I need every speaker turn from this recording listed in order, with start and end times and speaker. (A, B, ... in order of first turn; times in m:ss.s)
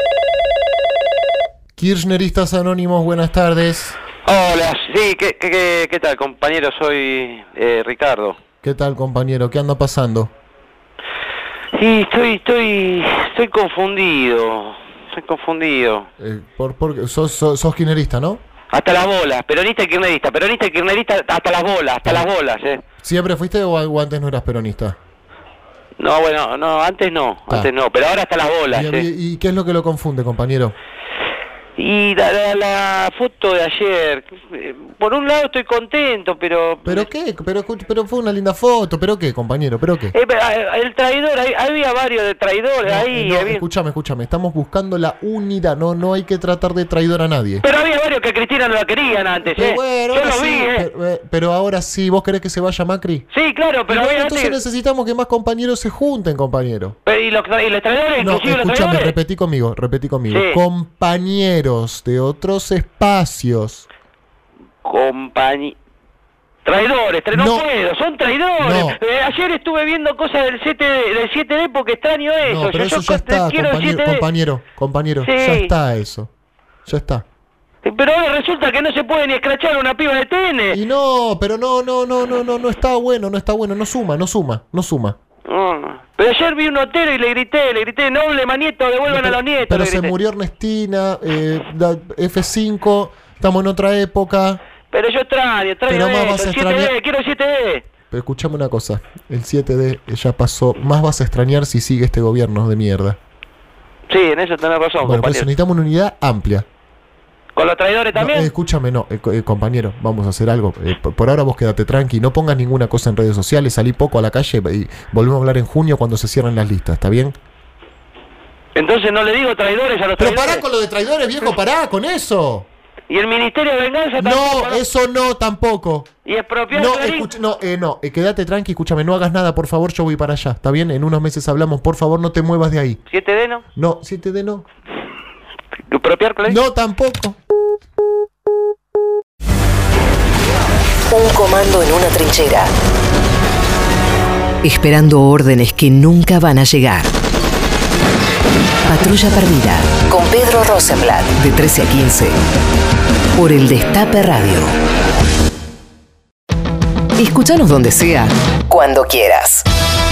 0:01.8-0:04.0 A
0:04.2-0:08.4 B
0:08.6-0:10.3 A
0:11.7-0:16.1 B
0:16.2-0:18.4 A
0:18.7-0:22.8 B
0:23.0-0:25.0 A
0:26.0-0:29.0 B
0:28.7-0:30.7 A
0:31.8-0:37.1 B
0:36.8-0:40.2 A
0:40.1-0:43.6 B
0:42.8-0:47.6 A
0:47.6-0:50.8 B
0:49.4-0:53.3 A
0:53.3-0:54.6 B
0:53.9-0:56.9 A
0:57.0-0:59.2 B
0:58.2-1:03.9 A
1:00.3-1:00.6 B
1:04.8-1:05.8 B
1:06.6-1:14.2 B
1:07.3-1:07.7 A
1:08.6-1:09.0 A
1:12.4-1:16.3 A
1:15.2-1:15.7 B
1:16.8-1:17.2 A
1:17.8-1:20.8 B
1:20.7-1:25.2 A
1:25.5-1:30.1 B
1:29.1-1:34.6 A
1:34.9-1:37.8 B
1:35.9-1:36.9 A
1:38.1-1:43.2 A
1:44.1-1:45.5 B
1:45.0-1:46.6 A
1:47.5-1:48.5 B
1:48.1-1:57.3 A
1:58.7-2:00.6 B
2:00.2-2:02.7 A
2:03.1-2:04.8 B
2:04.2-2:06.1 A
2:06.2-2:07.3 B
2:06.7-2:13.0 A
2:13.1-2:13.6 B
2:13.7-2:14.6 A
2:15.9-2:16.6 B
2:16.4-2:17.4 A
2:21.1-2:22.7 C
2:24.6-2:27.1 C
2:28.8-2:32.4 C
2:33.3-2:34.7 C
2:37.2-2:39.6 C